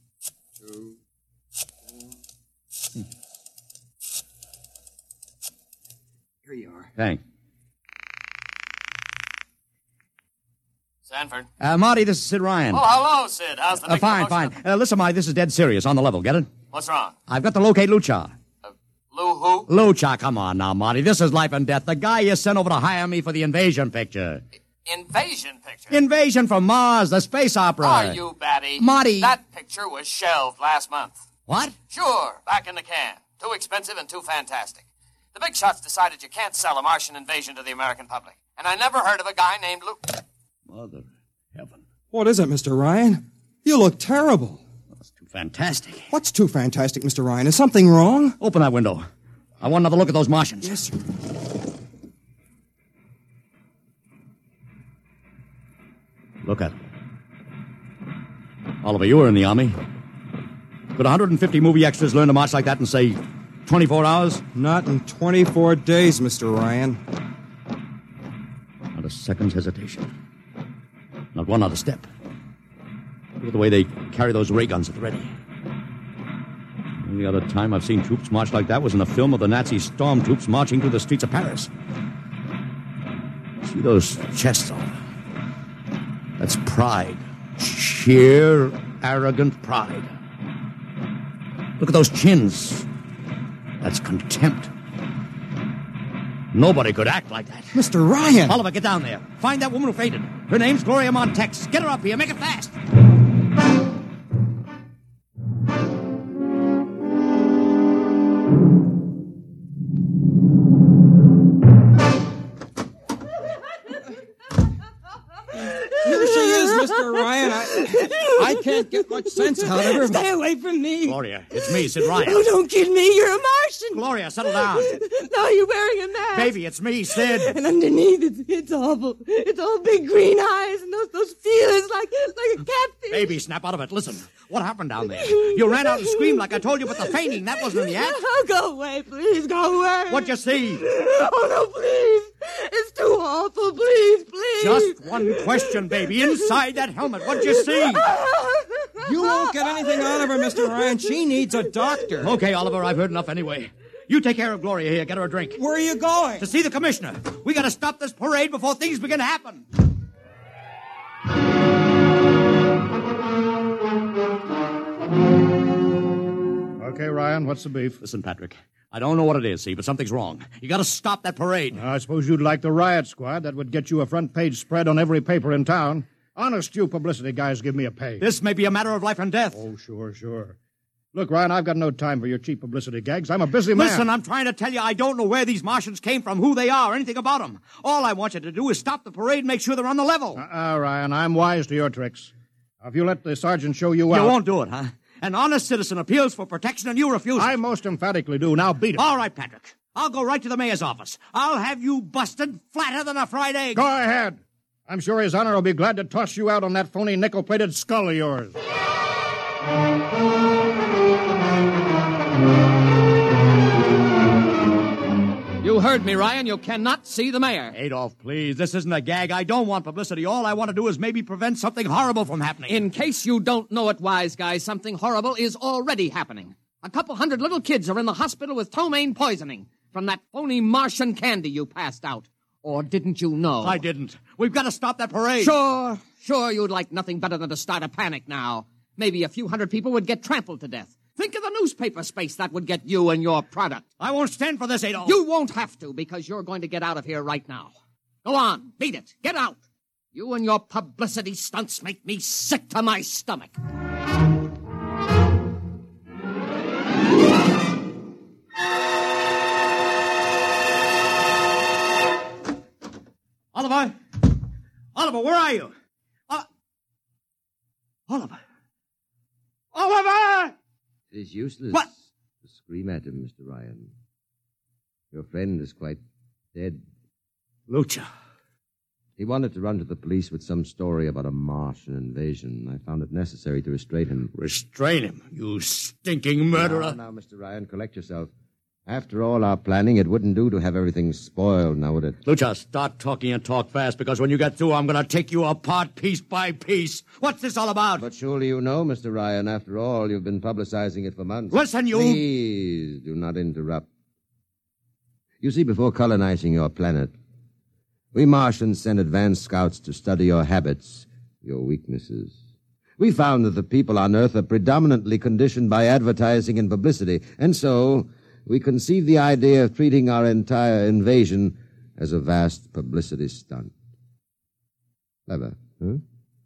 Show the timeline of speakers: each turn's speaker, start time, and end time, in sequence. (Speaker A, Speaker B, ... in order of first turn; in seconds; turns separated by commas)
Speaker A: 0.6-0.9, Speaker A: 6.5-6.9, Speaker B: 7.0-7.2, Speaker C: 11.1-11.5, Speaker B: 11.6-12.8, Speaker C: 12.7-14.6, Speaker B: 13.8-16.5, Speaker C: 16.7-17.1, Speaker B: 17.3-18.3, Speaker C: 18.6-19.7, Speaker B: 19.7-24.4, Speaker C: 24.9-26.0, Speaker B: 25.9-28.2, Speaker C: 27.8-31.2, Speaker B: 28.7-29.4, Speaker B: 31.5-31.7, Speaker C: 31.9-40.1, Speaker B: 40.7-41.8, Speaker A: 42.1-44.6, Speaker B: 45.1-46.1, Speaker A: 46.1-48.4, Speaker B: 48.4-49.0, Speaker B: 49.6-50.8, Speaker A: 50.6-50.9, Speaker B: 56.4-56.7, Speaker B: 58.8-59.7, Speaker B: 60.9-64.4, Speaker A: 64.5-67.0, Speaker B: 68.9-70.1, Speaker B: 71.3-72.1, Speaker B: 73.4-75.3, Speaker B: 77.0-81.7, Speaker B: 83.6-84.9, Speaker B: 86.4-90.1, Speaker B: 91.8-92.9, Speaker B: 93.8-94.7, Speaker B: 96.5-97.8, Speaker A: 97.7-98.6, Speaker B: 98.5-102.7, Speaker D: 115.7-133.4, Speaker A: 116.0-120.3, Speaker B: 121.0-122.5, Speaker B: 123.9-125.0, Speaker B: 126.3-127.5, Speaker B: 133.1-138.2, Speaker D: 135.1-152.0, Speaker B: 140.1-140.8, Speaker B: 144.6-148.0, Speaker A: 149.0-152.4, Speaker B: 152.2-155.6, Speaker A: 155.6-156.4, Speaker B: 156.4-159.6, Speaker E: 166.8-168.0, Speaker B: 168.0-171.8, Speaker E: 171.8-178.2, Speaker B: 178.2-179.6, Speaker E: 179.5-180.6, Speaker E: 181.1-184.1, Speaker B: 183.7-190.4, Speaker E: 190.4-194.4, Speaker B: 194.1-197.5, Speaker E: 197.4-199.0, Speaker B: 198.9-203.8, Speaker E: 203.7-208.5, Speaker F: 215.6-217.7, Speaker B: 217.7-222.8, Speaker F: 222.7-233.8, Speaker B: 233.6-235.5, Speaker F: 235.4-243.9, Speaker B: 244.0-245.2, Speaker F: 245.1-247.7, Speaker F: 248.2-249.6, Speaker F: 250.1-253.5, Speaker B: 263.5-263.9, Speaker B: 264.9-265.7, Speaker B: 268.1-268.4, Speaker B: 269.7-270.5, Speaker G: 271.1-271.9, Speaker G: 272.4-273.9, Speaker G: 275.1-276.0, Speaker G: 276.5-276.8, Speaker B: 277.7-278.1, Speaker G: 279.2-284.3, Speaker B: 284.3-287.0, Speaker G: 286.5-288.3, Speaker G: 288.9-292.2, Speaker B: 292.2-298.1, Speaker G: 298.0-303.9, Speaker B: 301.5-302.2, Speaker G: 305.4-307.1, Speaker G: 308.1-312.4, Speaker G: 313.0-323.7, Speaker G: 325.3-326.0